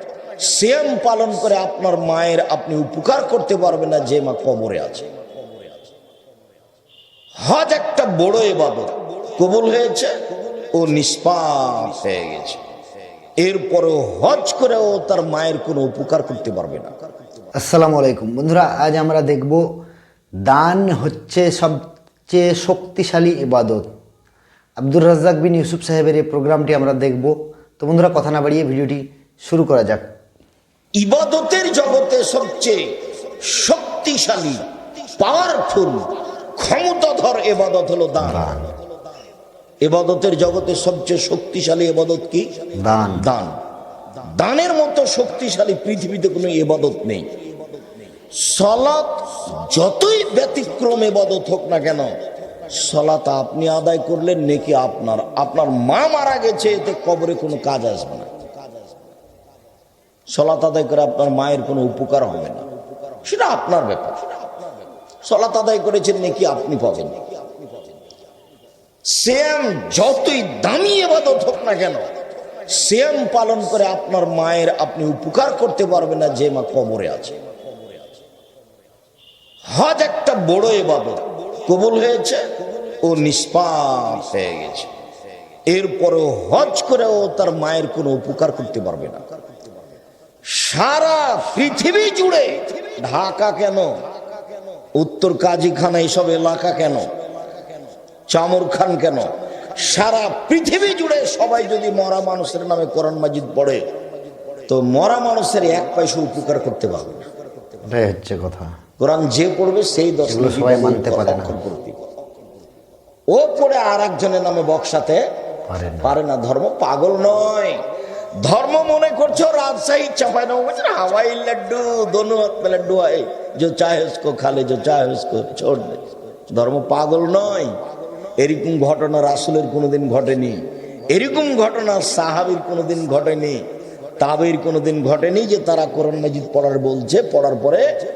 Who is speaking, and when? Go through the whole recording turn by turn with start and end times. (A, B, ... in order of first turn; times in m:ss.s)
0:00.4-0:05.1 A
0:07.4-0:10.1 A
0:10.7-0:12.6 A
0:13.4-0:16.9 A
0:17.6-0:19.7 B
0:20.4-0:23.9 B
0:24.8-0:30.1 B
0:31.0-0:32.9 A
0:33.4-0:34.7 A
0:35.2-0:38.6 A
0:38.2-0:38.7 B
0:39.8-0:42.6 A
0:42.8-0:43.3 B
0:43.2-0:43.6 A
0:44.4-0:47.3 A
0:48.3-0:52.2 A
0:52.7-0:58.3 A
1:00.3-1:02.7 A
1:03.2-1:04.3 A
1:05.2-1:07.2 A
1:09.1-1:12.1 A
1:12.7-1:17.4 A
1:19.7-1:22.4 A
1:23.0-1:24.9 A
1:25.7-1:29.2 A
1:30.5-1:34.0 A
1:35.0-1:37.1 A
1:38.3-1:43.9 A
1:44.7-1:47.3 A
1:47.8-1:48.7 B
1:49.0-1:52.0 A
1:50.3-1:51.6 B
1:53.3-1:55.2 A
1:55.7-1:56.2 B
1:56.0-1:57.8 A
1:58.4-2:07.8 A
2:08.4-2:13.6 A
2:14.2-2:17.8 A